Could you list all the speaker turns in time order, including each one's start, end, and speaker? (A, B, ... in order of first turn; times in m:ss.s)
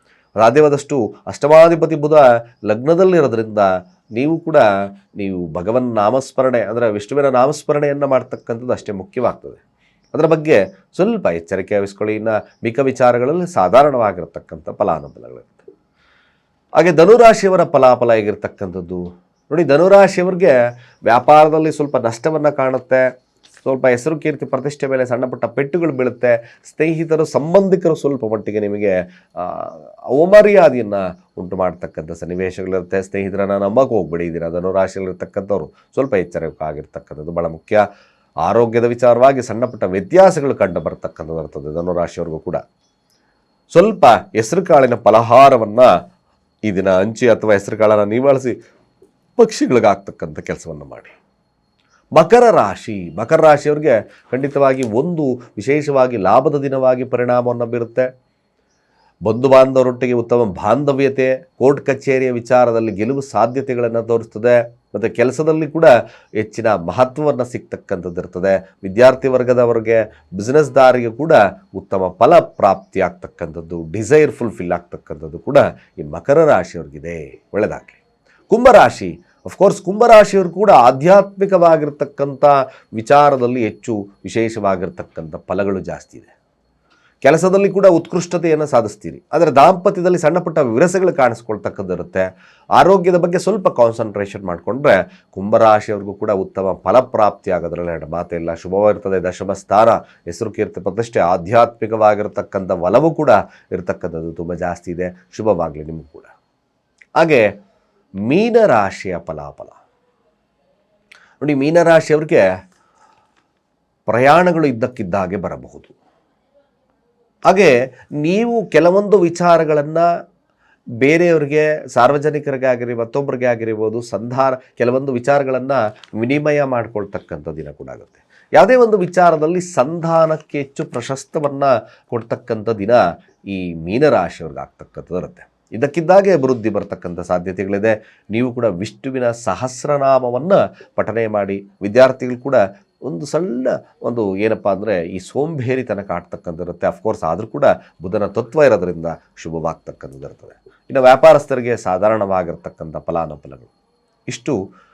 0:00.4-0:09.6 A
0:10.1-0:15.7 A
0:16.8-0:23.1 A
0:23.6-0:37.8 A
0:38.4-0:42.6 A
0:43.7-0:45.9 A
0:46.7-0:48.6 A
0:49.4-0:51.1 A
0:52.2-0:58.1 A
0:59.2-1:26.3 A
1:27.2-1:46.3 A
1:47.2-1:47.5 A
1:48.2-1:49.8 A
1:51.4-1:52.5 A
1:54.1-1:55.9 A
1:57.5-2:00.1 A
2:01.0-2:33.7 A
2:34.3-2:34.6 A